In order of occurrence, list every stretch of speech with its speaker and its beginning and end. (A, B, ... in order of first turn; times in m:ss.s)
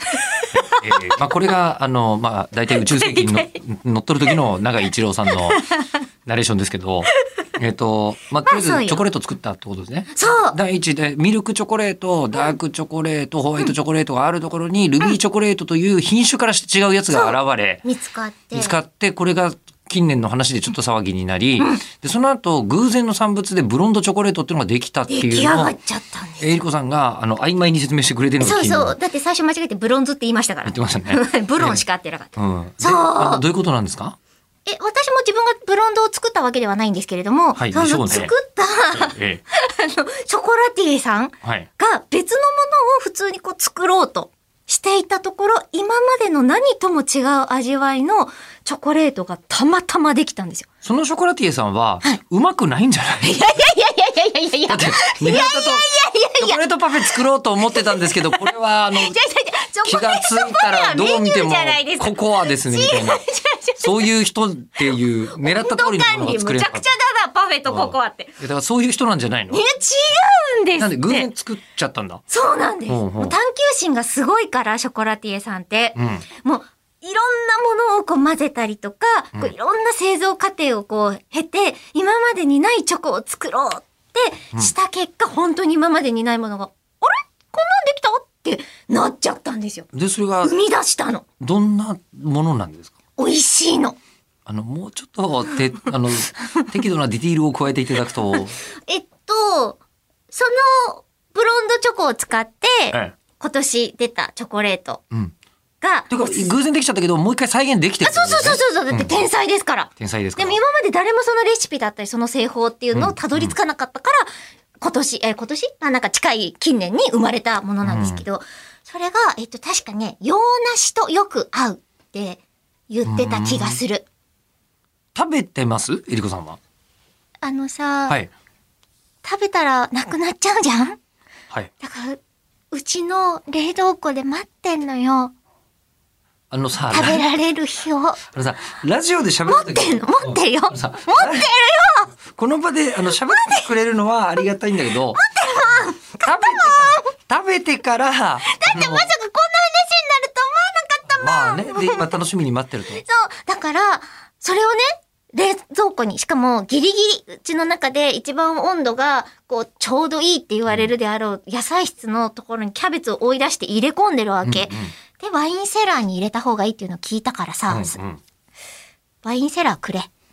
0:00.2-0:01.0 A
0:00.6-0:05.6 B
0:02.7-0:03.6 A
0:05.3-0:06.0 A
0:06.2-0:17.8 B
0:08.4-0:09.0 A
0:10.1-0:10.6 A
0:17.1-0:18.8 A
0:18.5-0:25.7 B
0:21.6-0:21.8 A
0:25.1-0:26.5 A
0:26.4-0:29.0 B
0:28.4-0:33.4 A
0:30.6-0:31.8 B
0:32.4-0:34.2 B
0:34.6-0:50.7 A
0:37.6-0:38.3 B
0:38.9-0:39.4 B
0:50.8-0:53.4 B
0:53.2-1:04.1 A
0:54.7-0:55.9 B
0:56.4-0:59.2 B
0:59.8-1:03.2 B
1:03.8-1:06.9 B
1:05.4-1:08.4 A
1:07.6-1:09.6 B
1:09.5-1:11.3 A
1:10.8-1:12.2 B
1:12.3-1:29.9 A
1:12.9-1:13.3 B
1:16.0-1:16.2 B
1:29.9-1:30.5 B
1:30.4-1:31.2 A
1:31.4-1:32.9 B
1:33.2-1:34.0 A
1:34.5-1:38.6 B
1:38.3-1:39.8 A
1:40.3-1:45.0 A
1:45.8-1:46.5 A
1:46.1-1:49.2 B
1:48.0-1:54.3 A
1:50.0-1:50.6 B
1:52.9-1:53.5 B
1:54.8-2:04.0 A
1:57.8-1:58.2 B
2:03.0-2:03.8 B
2:05.1-2:06.6 B
2:07.4-2:08.2 A
2:09.2-2:11.0 A
2:11.8-2:12.2 A
2:12.7-2:15.3 A
2:16.5-2:17.2 B
2:16.9-2:18.2 A
2:18.3-2:21.5 B
2:19.5-2:22.1 A
2:22.3-2:25.2 B
2:23.1-2:23.7 A
2:25.1-2:27.1 A
2:26.2-2:29.1 B
2:28.4-2:32.2 A
2:31.1-2:33.0 B
2:33.0-2:48.0 A
2:44.4-2:44.9 B
2:47.7-2:48.2 B
2:49.2-2:50.1 A